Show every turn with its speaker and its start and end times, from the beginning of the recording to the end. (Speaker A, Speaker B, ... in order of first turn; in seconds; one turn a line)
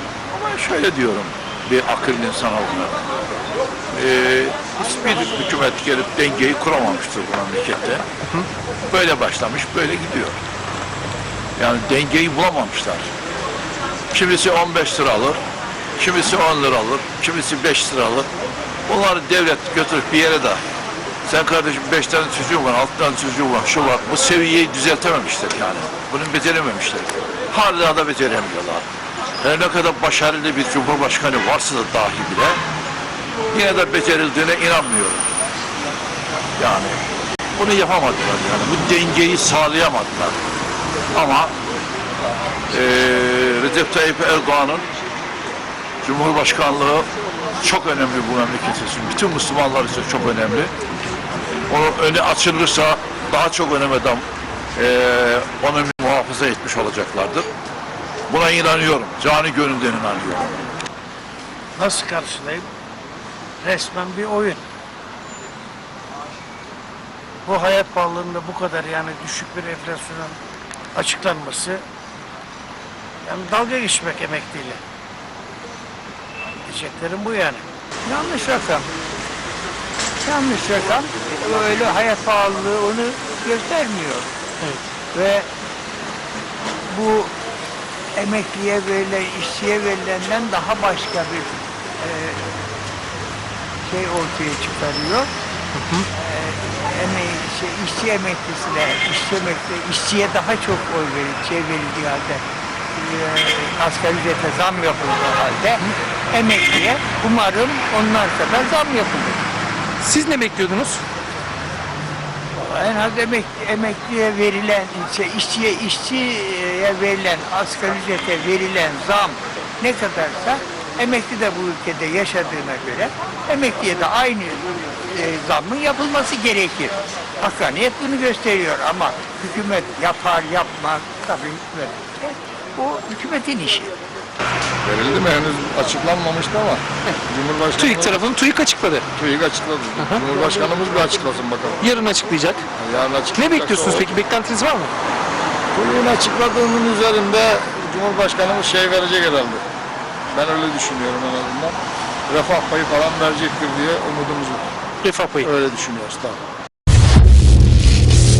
Speaker A: 0.3-3.0
Speaker A: 3.9-8.0
Speaker A: 8.9-10.4
Speaker A: 11.6-13.1
Speaker A: 14.1-15.4
Speaker A: 16.0-18.3
Speaker A: 18.9-20.6
Speaker A: 21.2-28.9
Speaker A: 29.4-32.6
Speaker A: 33.5-35.3
Speaker A: 36.6-37.0
Speaker A: 37.5-40.4
Speaker A: 41.1-41.5
Speaker A: 42.7-44.9
Speaker A: 46.0-47.1
Speaker A: 47.6-50.7
Speaker A: 51.7-54.2
Speaker A: 54.8-57.5
Speaker A: 58.3-60.5
Speaker B: 61.8-62.7
Speaker B: 63.6-64.6
Speaker B: 67.4-70.4
Speaker B: 70.9-71.8
Speaker B: 73.2-74.8
Speaker B: 76.7-77.6
Speaker C: 78.0-78.8
Speaker C: 80.2-84.3
Speaker C: 85.1-85.5
Speaker C: 86.9-87.3
Speaker C: 88.2-92.6
Speaker C: 93.8-95.3
Speaker C: 96.1-102.4
Speaker C: 102.9-109.4
Speaker D: 110.0-111.0
Speaker C: 112.7-133.9
Speaker E: 134.8-138.2
Speaker D: 137.8-139.0
Speaker E: 139.1-141.9
Speaker D: 140.0-140.2
Speaker D: 141.8-142.6
Speaker E: 142.8-144.2
Speaker D: 143.3-144.9
Speaker E: 145.7-149.6
Speaker E: 150.3-154.7
Speaker D: 155.0-155.5
Speaker E: 155.4-156.4